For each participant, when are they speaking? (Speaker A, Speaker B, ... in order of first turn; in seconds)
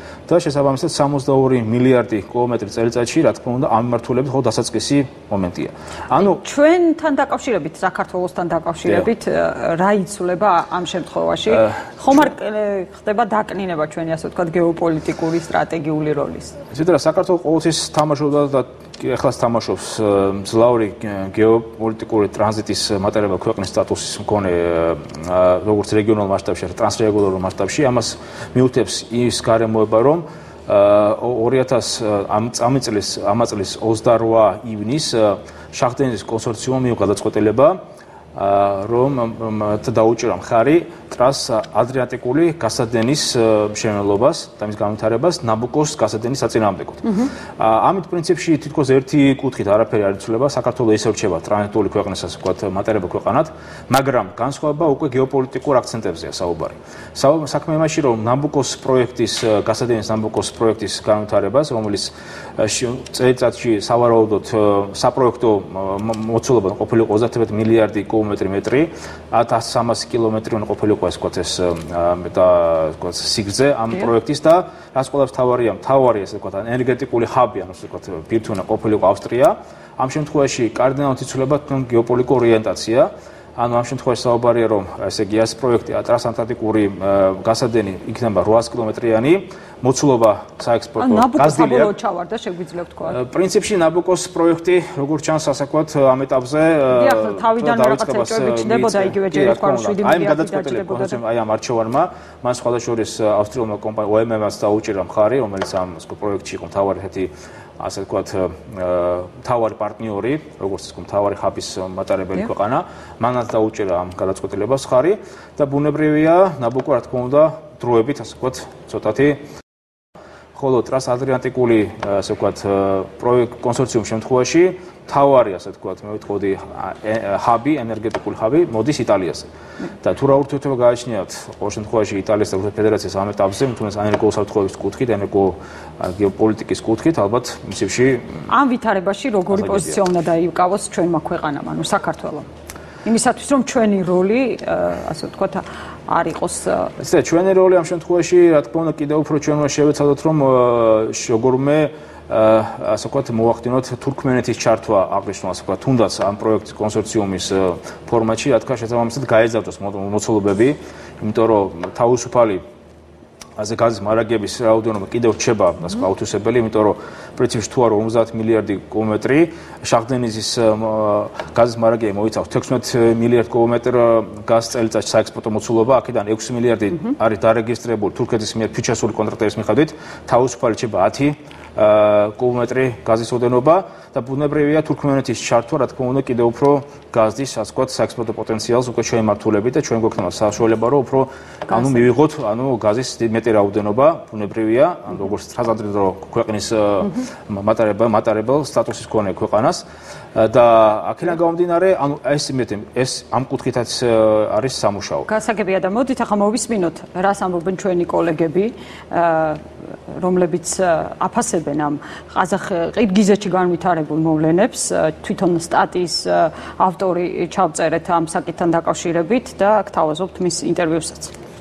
Speaker A: 0.3-6.4, 11.5-11.8, 16.7-37.8, 38.4-91.9, 93.1-119.4, 120.5-129.5, 130.0-138.5, 139.5-140.0, 147.0-162.6, 163.6-205.3
Speaker B: 6.2-16.6, 91.0-93.2, 96.9-101.2, 138.5-142.5, 143.0-146.9, 205.2-209.6, 210.1-221.3